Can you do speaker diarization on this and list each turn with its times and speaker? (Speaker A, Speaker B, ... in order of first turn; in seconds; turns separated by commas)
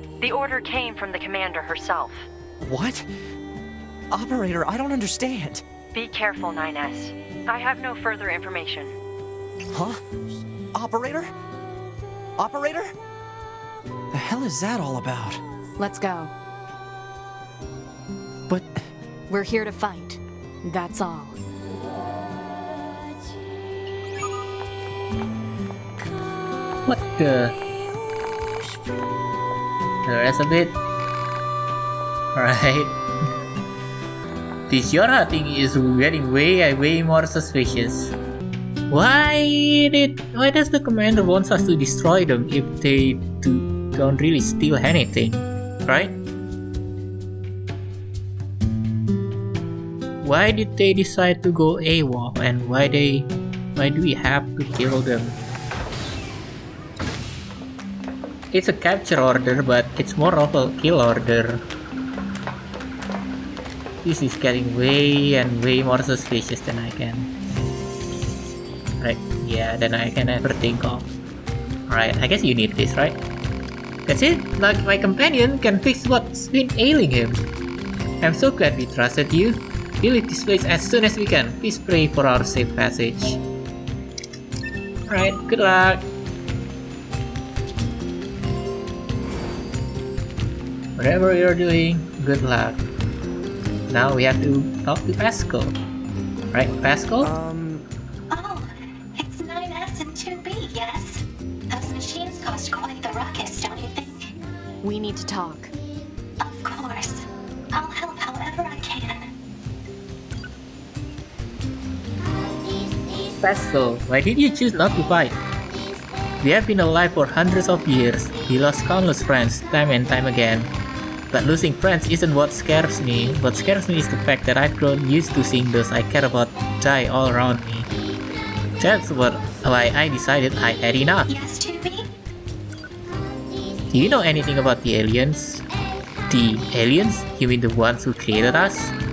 Speaker A: 0.2-2.3, Speaker B: 2.6-3.1, Speaker B: 4.1-5.6, Speaker A: 5.9-8.9, Speaker B: 9.7-10.0, Speaker B: 10.7-11.3, Speaker B: 12.4-12.9, Speaker B: 14.1-15.4, Speaker C: 15.8-16.3, Speaker B: 18.5-18.8, Speaker C: 19.3-21.4, Speaker D: 26.8-27.6, Speaker D: 30.0-30.8, Speaker D: 32.3-33.0, Speaker D: 34.7-38.1, Speaker D: 38.9-46.2, Speaker D: 50.2-55.4, Speaker D: 58.5-61.6, Speaker D: 64.0-67.3, Speaker D: 69.0-71.1, Speaker D: 71.9-73.2, Speaker D: 74.0-77.5, Speaker D: 78.2-83.4, Speaker D: 85.1-86.1, Speaker D: 91.0-92.8, Speaker D: 93.9-95.7, Speaker D: 96.5-97.3, Speaker B: 97.2-97.9, Speaker E: 98.3-104.3, Speaker C: 104.8-105.7, Speaker E: 106.4-109.3, Speaker D: 113.4-115.4, Speaker D: 116.4-120.7, Speaker D: 121.3-127.9, Speaker D: 128.8-131.3, Speaker E: 131.3-132.1, Speaker D: 133.9-135.6, Speaker D: 136.3-138.9